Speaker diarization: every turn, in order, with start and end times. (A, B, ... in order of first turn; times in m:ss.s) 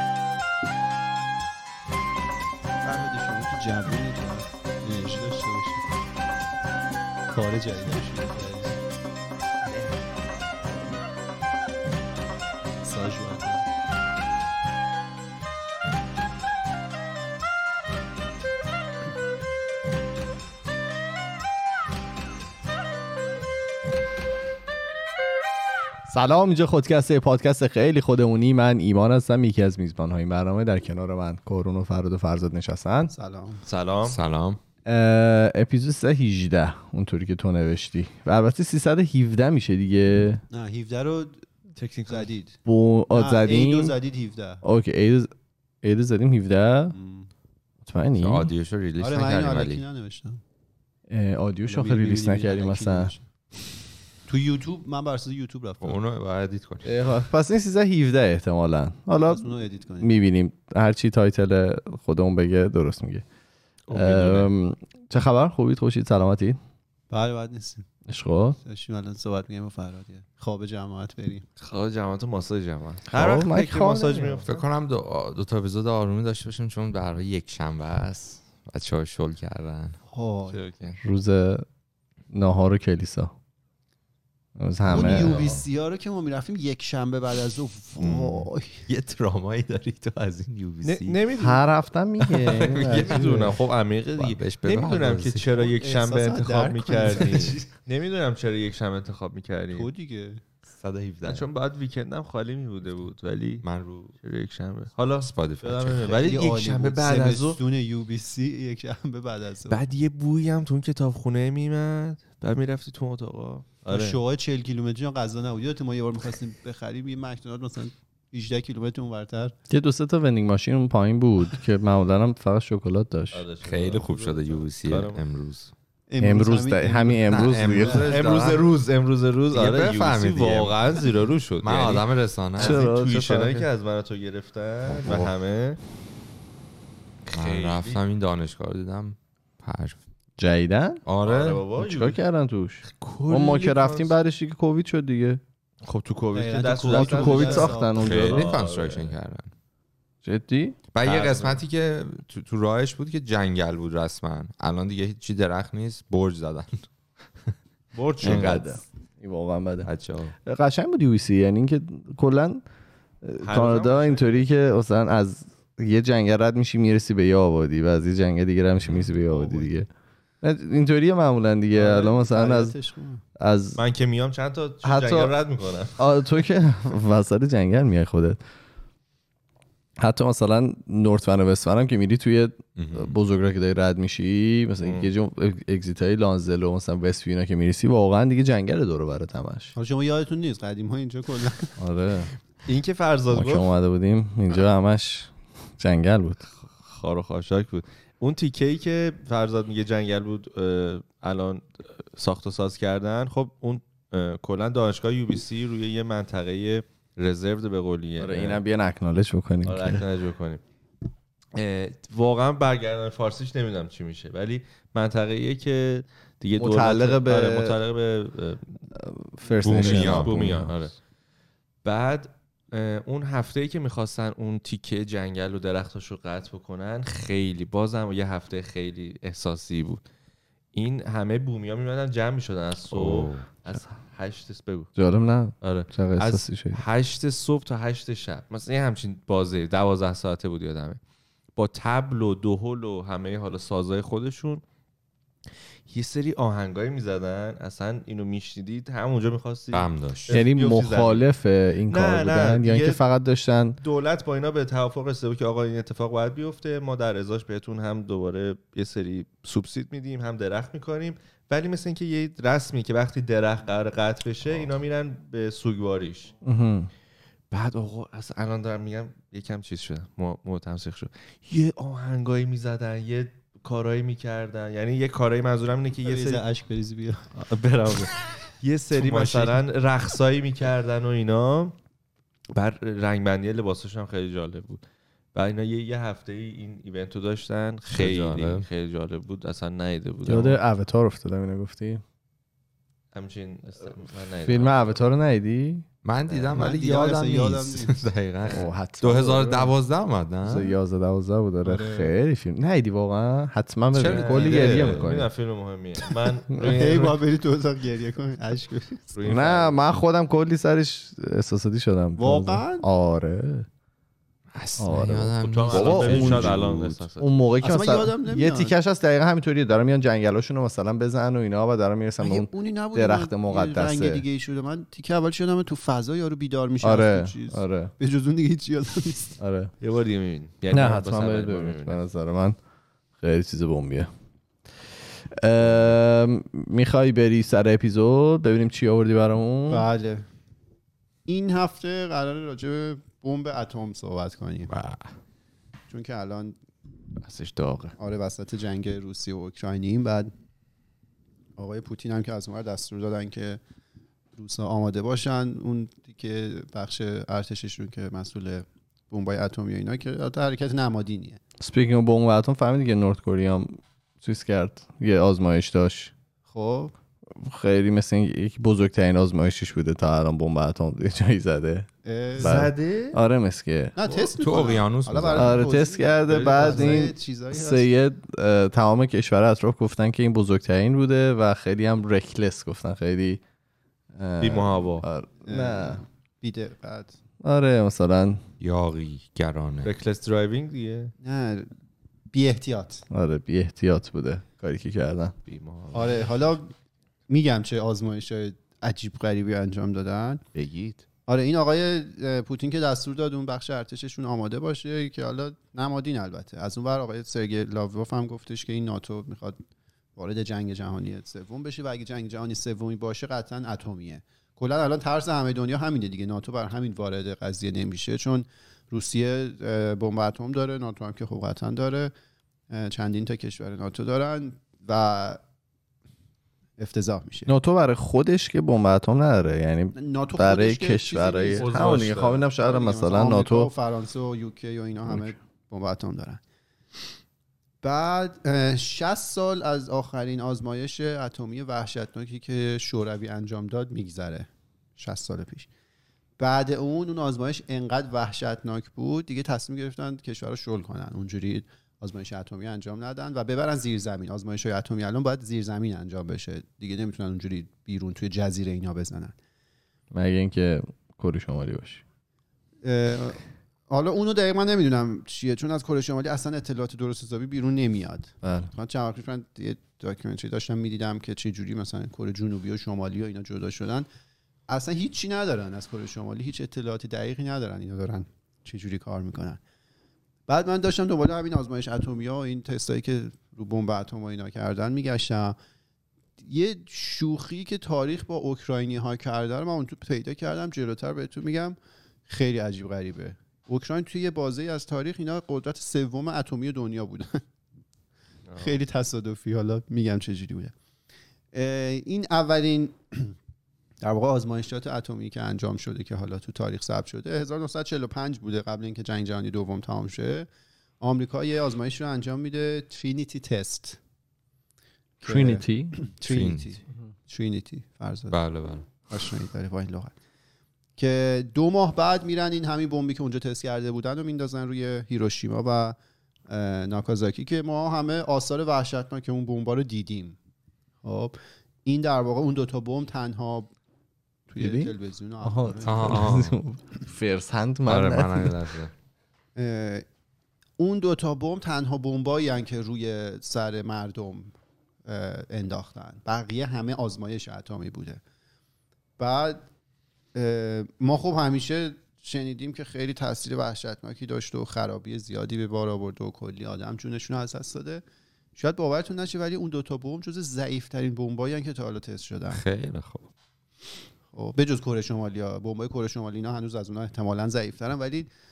0:02.8-0:05.8 A
0:07.3-0:08.8 A
0:12.8-0:13.6 A
0:26.1-0:33.1 B
0:33.1-0:33.6 A
0:33.6-0:34.2 C
0:34.0-0:34.6 D
0:34.9-0:40.4 B
0:40.5-0:41.4 A
0:41.8-0:42.3 C
0:42.1-0:42.6 A
0:42.6-0:44.0 B
0:43.1-0:44.6 A
0:44.6-0:45.3 B
0:45.8-0:47.0 B
0:46.9-0:47.3 A
0:47.8-0:48.5 B
0:48.2-0:49.8 D
0:49.0-0:50.4 A
0:51.1-0:53.1 B
0:51.7-0:53.2 A
0:54.3-0:56.0 A
0:55.8-0:56.9 D
0:56.8-0:59.5 B
0:59.2-1:00.1 A
1:00.0-1:03.2 B
1:03.9-1:04.5 C
1:03.9-1:06.6 B
1:07.1-1:07.9 A
1:08.1-1:08.6 B
1:08.6-1:11.5 A
1:11.6-1:14.5 C
1:13.1-1:14.4 B
1:14.4-1:20.0 D
1:20.1-1:20.6 A
1:20.5-1:21.0 C
1:21.0-1:21.6 B
1:22.3-1:23.3 B
1:24.6-1:25.4 B
1:24.9-1:28.8 A
1:25.3-1:25.6 D
1:28.0-1:31.2 D
1:30.8-1:31.6 C
1:31.4-1:33.6 B
1:32.3-1:33.3 D
1:32.5-1:39.9 C
1:34.2-1:35.7 D
1:35.8-1:37.7 A
1:39.7-1:40.4 A
1:40.7-1:41.5 D
1:41.2-1:43.6 C
1:43.6-1:44.1 D
1:44.2-1:47.6 C
1:45.2-1:46.2 D
1:46.1-1:49.8 A
1:49.7-1:54.2 C
1:53.9-1:59.6 A
1:59.7-2:03.4 B
2:03.3-2:05.2 C
2:03.6-2:05.7 D
2:06.1-2:07.9 A
2:06.2-2:08.2 B
2:07.2-2:08.7 D
2:07.8-2:15.8 C
2:09.5-2:11.0 D
2:11.6-2:12.8 D
2:12.6-2:13.7 B
2:17.3-2:18.0 C
2:17.3-2:20.0 D
2:20.4-2:21.0 B
2:21.1-2:21.6 D
2:21.2-2:22.2 C
2:21.8-2:25.4 B
2:22.8-2:24.2 C
2:25.8-2:29.2 C
2:26.3-2:28.0 A
2:26.9-2:28.5 B
2:27.9-2:29.5 D
2:30.2-2:30.8 B
2:30.9-2:36.8 D
2:31.0-2:31.6 C
2:38.0-2:38.8 C
2:38.2-2:38.8 D
2:38.2-2:39.9 B
2:39.8-2:40.4 D
2:40.4-2:42.6 B
2:43.2-2:49.9 B
2:43.4-2:44.5 C
2:48.8-2:49.2 D
2:49.3-2:49.7 A
2:50.4-2:52.7 B
2:51.7-2:53.2 A
2:53.4-2:53.8 B
2:53.8-2:56.0 C
2:54.8-2:55.4 B
2:56.0-2:58.4 B
3:00.0-3:09.7 B
3:02.8-3:03.2 D
3:04.8-3:05.1 C
3:09.8-3:11.7 A
3:11.8-3:12.3 B
3:12.7-3:13.7 C
3:13.3-3:16.4 B
3:16.6-3:28.6 C
3:28.2-3:30.1 B
3:29.6-3:30.6 C
3:31.6-3:38.8 C
3:36.6-3:37.8 B
3:39.0-3:40.7 B
3:39.6-3:41.0 C
3:39.6-3:40.7 D
3:41.8-3:50.0 C
3:50.7-3:54.9 C
3:52.9-3:53.5 D
3:55.0-3:56.8 B
3:55.6-4:01.0 C
4:01.6-4:04.6 C
4:05.9-4:11.3 C
4:09.7-4:10.3 D
4:10.3-4:13.8 B
4:11.9-4:13.0 C
4:13.8-4:26.3 C
4:26.4-4:26.9 B
4:27.5-4:36.4 C
4:36.0-4:37.3 A
4:37.4-4:41.8 C
4:39.0-4:39.5 D
4:42.5-4:44.8 C
4:45.3-4:50.6 C
4:47.9-4:48.7 D
4:50.3-4:52.0 B
4:53.1-4:55.0 C
4:54.4-4:55.9 B
4:56.0-5:00.8 D
4:56.4-4:58.1 A
4:58.4-4:58.7 C
4:58.5-4:59.7 B
5:00.4-5:05.3 B
5:01.6-5:02.1 A
5:03.9-5:05.1 D
5:04.0-5:07.2 C
5:06.6-5:09.1 A
5:09.1-5:09.8 C
5:09.2-5:13.7 B
5:12.2-5:12.9 A
5:14.5-5:17.0 D
5:14.8-5:16.6 B
5:15.4-5:17.4 C
5:17.2-5:24.2 B
5:17.6-5:18.7 A
5:22.2-5:29.4 A
5:26.8-5:27.9 B
5:29.4-5:29.7 B
5:29.8-5:32.0 C
5:30.7-5:32.6 B
5:33.2-5:34.1 B
5:35.3-5:39.9 B
5:39.7-5:40.3 A
5:41.3-5:44.7 A
5:44.7-5:45.1 D
5:45.9-5:46.6 A
5:47.2-5:47.9 C
5:48.0-5:50.3 A
5:51.6-5:53.6 A
5:54.4-6:01.4 A
6:01.6-6:06.1 B
6:06.5-6:06.9 A
6:07.4-6:14.0 B
6:12.0-6:12.7 A
6:12.4-6:13.2 C
6:14.0-6:17.9 A
6:14.2-6:15.6 D
6:15.3-6:23.4 B
6:16.3-6:17.1 C
6:24.1-6:26.0 B
6:24.4-6:25.1 C
6:25.4-6:27.2 A
6:27.4-6:28.4 B
6:28.6-6:29.9 D
6:29.8-6:31.1 C
6:31.2-6:31.7 A
6:32.3-6:33.0 A
6:33.1-6:35.3 B
6:35.4-6:36.5 C
6:35.9-6:36.7 A
6:37.3-6:40.4 A
6:40.6-6:41.0 C
6:41.3-6:49.6 A
6:50.2-7:02.1 A
7:02.7-7:05.4 A
7:06.8-7:07.5 A
7:07.5-7:13.7 B
7:10.0-7:12.1 A
7:11.5-7:12.5 C
7:12.6-7:16.4 A
7:17.8-7:25.7 A
7:26.4-7:39.4 A
7:40.1-7:42.0 B
7:42.8-7:54.1 A
7:48.4-7:48.7 B
7:54.7-7:59.6 A
8:00.5-8:05.6 A
8:06.4-8:17.4 A
8:18.5-8:18.8 C
8:18.6-8:20.7 A
8:21.5-8:23.4 A
8:24.0-8:30.5 A
8:31.0-8:34.0 A
8:35.2-8:38.4 A
8:35.2-8:36.0 B
8:36.2-8:36.7 D
8:38.3-8:38.9 D
8:39.1-8:40.1 A
8:41.0-8:46.0 A
8:46.5-8:50.4 A
8:51.0-8:53.7 A
8:54.5-8:56.3 A
8:54.6-8:58.6 B
8:55.8-8:56.6 D
8:57.9-8:58.9 D
8:59.6-9:00.0 A
9:00.8-9:04.5 A
9:05.0-9:08.2 A
9:09.2-9:09.6 A
9:10.3-9:18.0 A
9:18.6-9:22.6 A
9:22.5-9:23.3 D
9:24.3-9:28.3 A